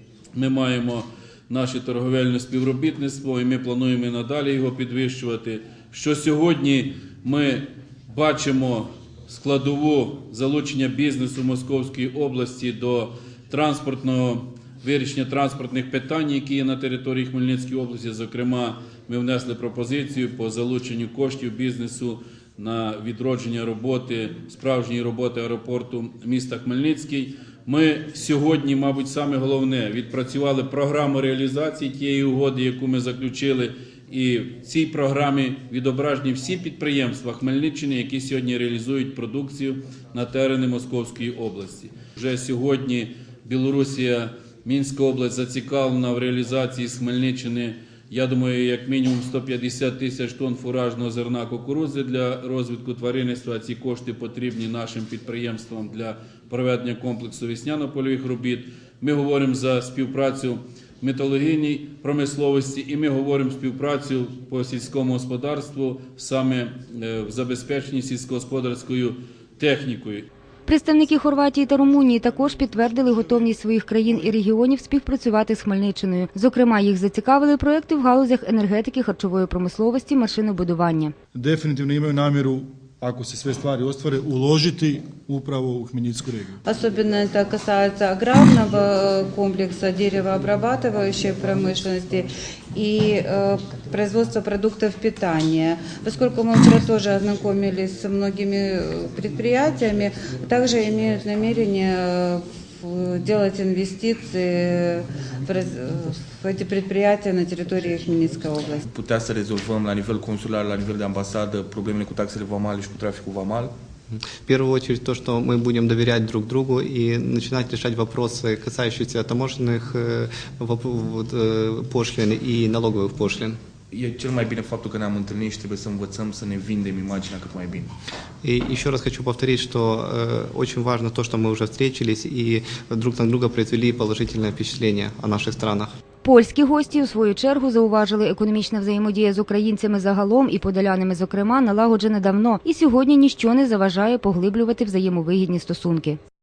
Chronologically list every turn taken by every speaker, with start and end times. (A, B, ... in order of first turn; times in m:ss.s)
0:00.4-1:10.3 A
1:10.7-1:21.1 B
1:21.4-1:26.6 C
1:26.6-1:48.8 D
1:48.8-1:53.7 E
1:54.1-2:03.6 F
2:03.9-2:07.9 E
2:08.4-2:15.9 F
2:16.2-2:26.2 B